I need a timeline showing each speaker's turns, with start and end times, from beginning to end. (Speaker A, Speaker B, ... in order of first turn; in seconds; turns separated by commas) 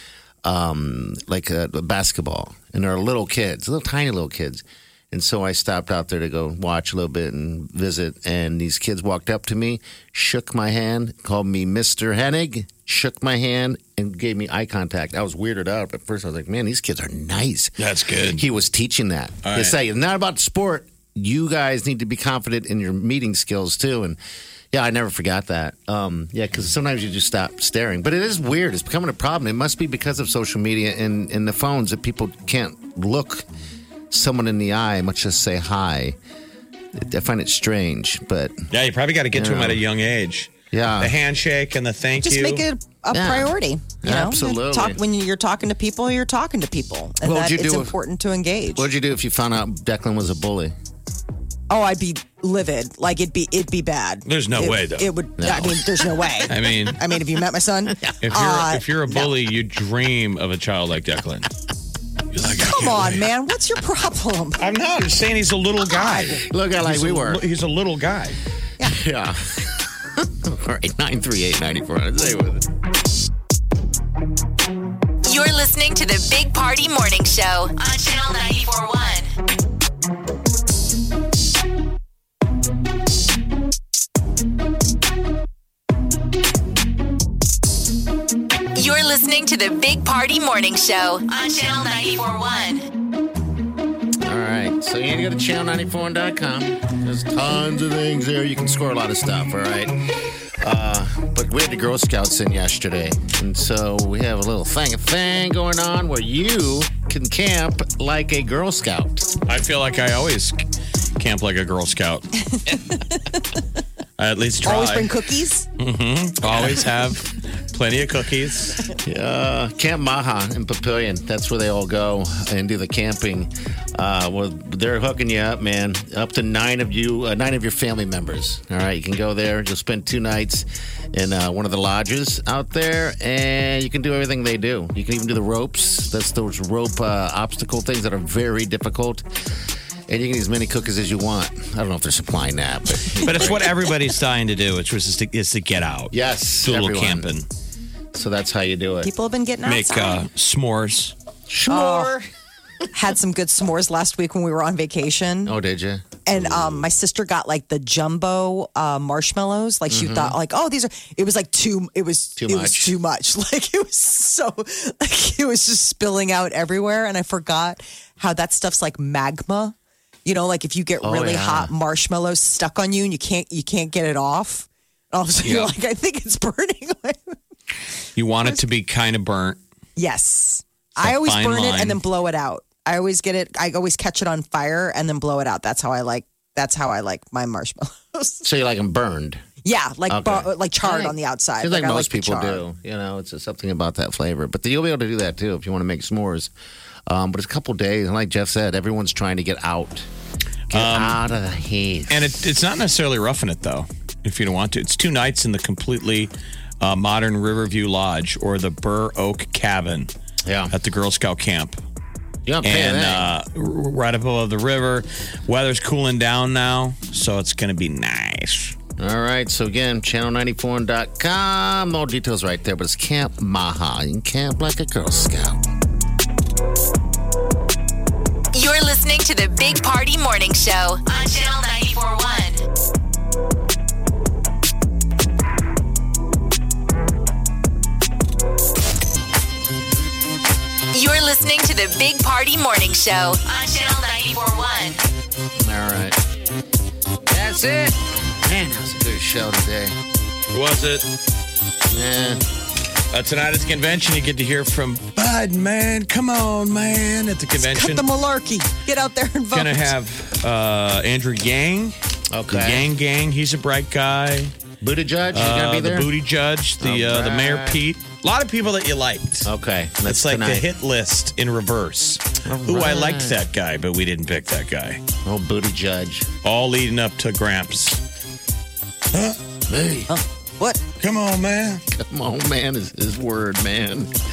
Speaker A: 0.4-24.2, Speaker B: 17.8-18.4, Speaker B: 19.4-19.8, Speaker A: 24.7-33.5, Speaker A: 34.1-36.2, Speaker A: 36.9-38.6, Speaker B: 38.7-42.6, Speaker A: 39.3-39.8, Speaker A: 40.7-41.2, Speaker C: 42.2-48.9, Speaker A: 43.1-45.0, Speaker A: 47.2-48.0, Speaker A: 48.8-50.7, Speaker C: 51.7-59.3, Speaker B: 54.3-55.1, Speaker A: 55.4-56.4, Speaker B: 56.5-57.0, Speaker A: 58.0-58.3, Speaker B: 58.2-61.5, Speaker B: 62.3-63.2, Speaker C: 62.6-64.6, Speaker B: 64.6-68.4, Speaker C: 65.9-66.3, Speaker A: 66.3-67.4, Speaker A: 68.8-72.7, Speaker D: 75.2-79.3, Speaker D: 88.8-92.9, Speaker A: 94.2-100.0, Speaker A: 100.6-109.3, Speaker B: 109.5-110.6, Speaker B: 111.2-112.3, Speaker C: 112.7-113.3, Speaker B: 114.2-115.1, Speaker C: 114.6-115.7, Speaker B: 115.8-118.8, Speaker A: 119.0-139.3, Speaker A: 140.1-143.9, Speaker B: 143.2-146.1, Speaker A: 146.1-147.3, Speaker B: 146.6-147.5, Speaker A: 148.1-149.1, Speaker C: 149.0-150.2, Speaker B: 149.7-151.2, Speaker A: 151.5-152.3, Speaker C: 151.7-152.1, Speaker C: 152.9-155.6, Speaker A: 155.4-156.9, Speaker C: 156.3-177.4, Speaker A: 159.9-160.4, Speaker A: 162.4-163.0, Speaker A: 171.0-171.7, Speaker B: 175.4-175.7, Speaker B: 178.2-179.6, Speaker C: 180.0-188.4, Speaker B: 181.0-182.0, Speaker A: 188.4-189.4, Speaker C: 189.6-192.6, Speaker A: 190.1-196.5, Speaker A: 197.1-200.1, Speaker B: 200.7-201.2, Speaker A: 200.7-202.3, Speaker B: 202.1-210.1, Speaker A: 210.5-210.7, Speaker B: 210.7-211.8, Speaker A: 212.5-213.3, Speaker B: 212.6-218.8, Speaker A: 219.0-225.6, Speaker D: 228.5-232.6, Speaker D: 240.9-245.0, Speaker A: 245.6-246.2, Speaker A: 247.3-250.0, Speaker B: 250.5-251.1, Speaker A: 251.9-252.4, Speaker B: 253.1-258.1, Speaker C: 257.6-259.9, Speaker B: 259.5-262.0, Speaker A: 262.3-262.9, Speaker B: 262.5-264.5, Speaker A: 264.8-266.1, Speaker B: 265.3-269.5, Speaker A: 266.8-267.8, Speaker A: 269.4-270.7, Speaker B: 270.1-275.0, Speaker A: 272.4-273.4, Speaker A: 275.2-276.3, Speaker B: 276.4-278.0, Speaker A: 279.7-280.1, Speaker C: 280.1-280.8, Speaker B: 281.0-281.8, Speaker A: 281.9-284.1